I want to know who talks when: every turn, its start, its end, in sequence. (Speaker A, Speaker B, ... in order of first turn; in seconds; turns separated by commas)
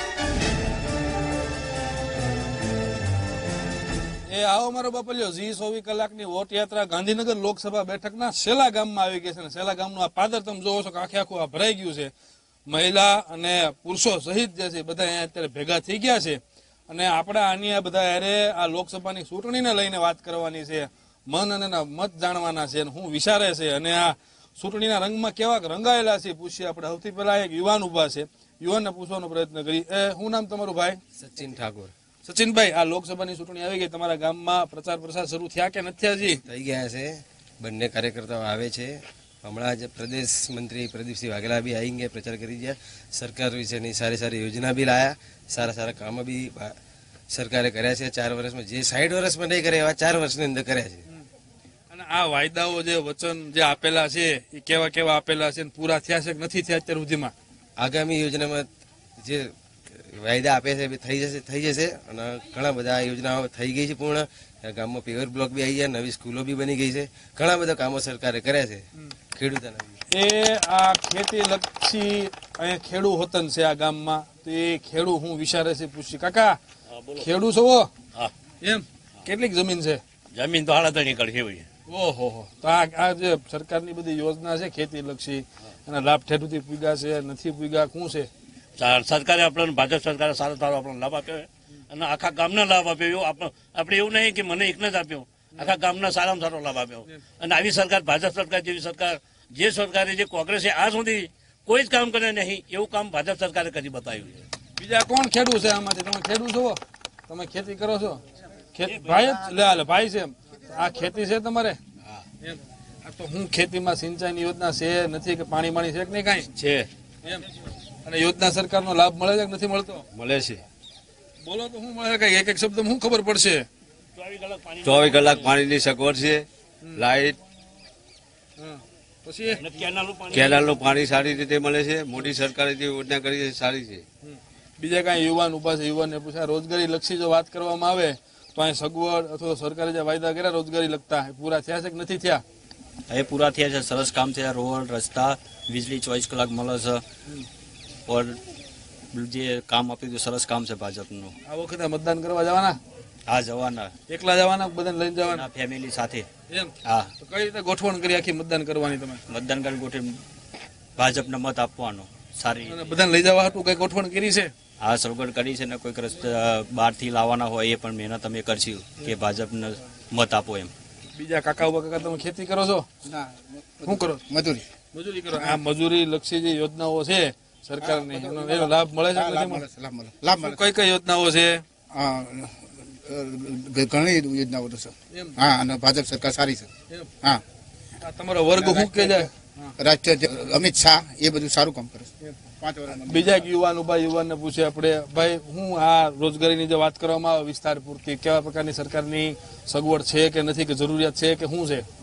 Speaker A: 4.3-12.1, Speaker A: 12.7-31.0, Speaker B: 31.2-31.9, Speaker A: 32.2-36.4, Speaker B: 36.5-46.8, Speaker B: 47.3-51.0, Speaker A: 51.9-57.3, Speaker B: 57.8-70.0, Speaker A: 70.1-76.6, Speaker C: 76.9-77.2, Speaker A: 77.2-77.9, Speaker A: 78.6-80.0, Speaker C: 80.3-81.7, Speaker A: 81.9-88.3, Speaker C: 88.8-104.5, Speaker A: 104.8-108.2, Speaker A: 108.7-111.8, Speaker C: 108.8-109.4, Speaker A: 112.4-116.5, Speaker A: 118.0-120.0, Speaker D: 120.1-120.6, Speaker A: 121.4-123.7, Speaker C: 124.2-125.6, Speaker D: 124.9-127.3, Speaker A: 128.6-129.6, Speaker C: 129.6-131.4, Speaker D: 130.4-134.0, Speaker A: 134.2-142.4, Speaker E: 143.1-147.0, Speaker E: 148.1-148.4, Speaker E: 149.1-151.3, Speaker A: 151.4-152.8, Speaker E: 153.3-153.9, Speaker A: 154.1-155.4, Speaker E: 155.3-156.3, Speaker A: 156.5-159.2, Speaker E: 156.8-157.1, Speaker E: 159.3-160.2, Speaker E: 160.9-162.7, Speaker A: 162.6-164.5, Speaker E: 164.8-170.7, Speaker A: 171.1-172.9, Speaker F: 173.8-174.6, Speaker A: 173.8-174.2, Speaker A: 174.9-179.7, Speaker F: 177.8-180.6, Speaker A: 180.3-181.6, Speaker F: 181.9-182.5, Speaker F: 183.1-186.7, Speaker A: 185.1-185.4, Speaker A: 188.0-189.7, Speaker F: 188.6-189.2, Speaker F: 189.8-193.3, Speaker A: 192.9-201.8